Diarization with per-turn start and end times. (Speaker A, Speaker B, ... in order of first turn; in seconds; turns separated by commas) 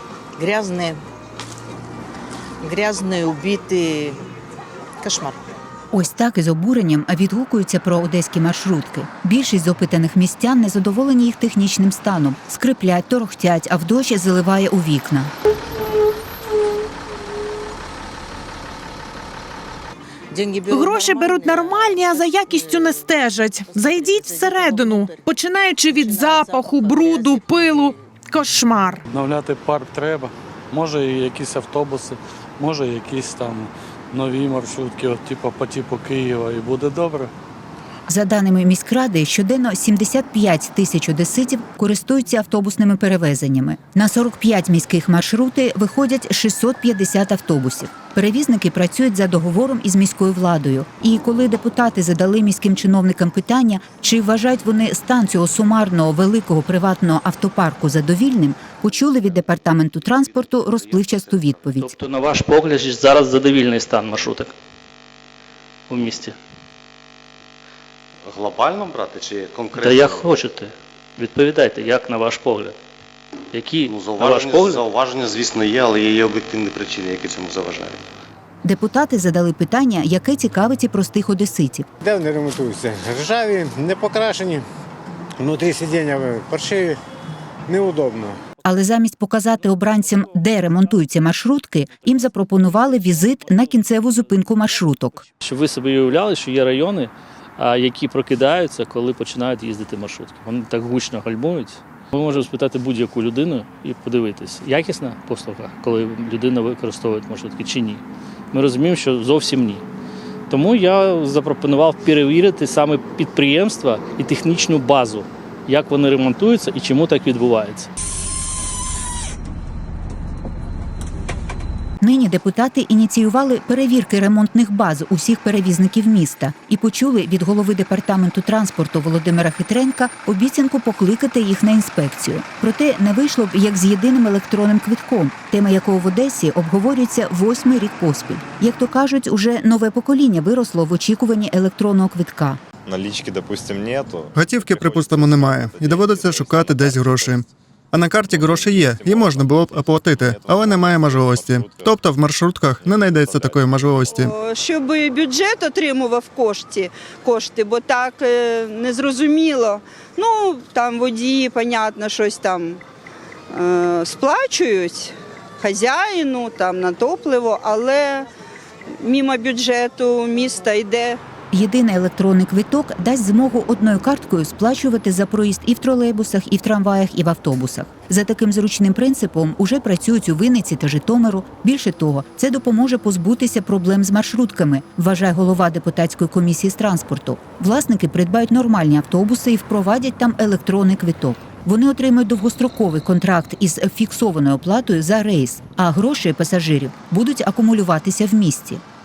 Speaker A: 0.4-1.0, Speaker A: 2.6-4.2, Speaker A: 5.0-5.4, Speaker B: 5.9-15.3, Speaker A: 20.3-22.9, Speaker C: 20.7-29.0, Speaker A: 23.6-25.4, Speaker A: 25.9-28.0, Speaker D: 29.1-37.3, Speaker B: 38.1-61.9, Speaker E: 61.8-64.5, Speaker E: 65.9-66.4, Speaker F: 68.3-70.5, Speaker E: 69.8-72.8, Speaker E: 73.5-74.9, Speaker F: 73.9-78.0, Speaker B: 78.6-81.9, Speaker G: 82.0-84.6, Speaker G: 85.4-87.0, Speaker G: 87.7-88.3, Speaker B: 88.7-95.2, Speaker E: 95.4-109.8, Speaker E: 110.5-117.9, Speaker B: 122.0-142.6, Speaker H: 142.9-147.4, Speaker I: 144.3-154.3, Speaker H: 148.2-152.0, Speaker H: 152.8-154.2, Speaker J: 154.2-162.8, Speaker J: 163.5-168.3, Speaker J: 169.0-171.2, Speaker B: 171.5-198.8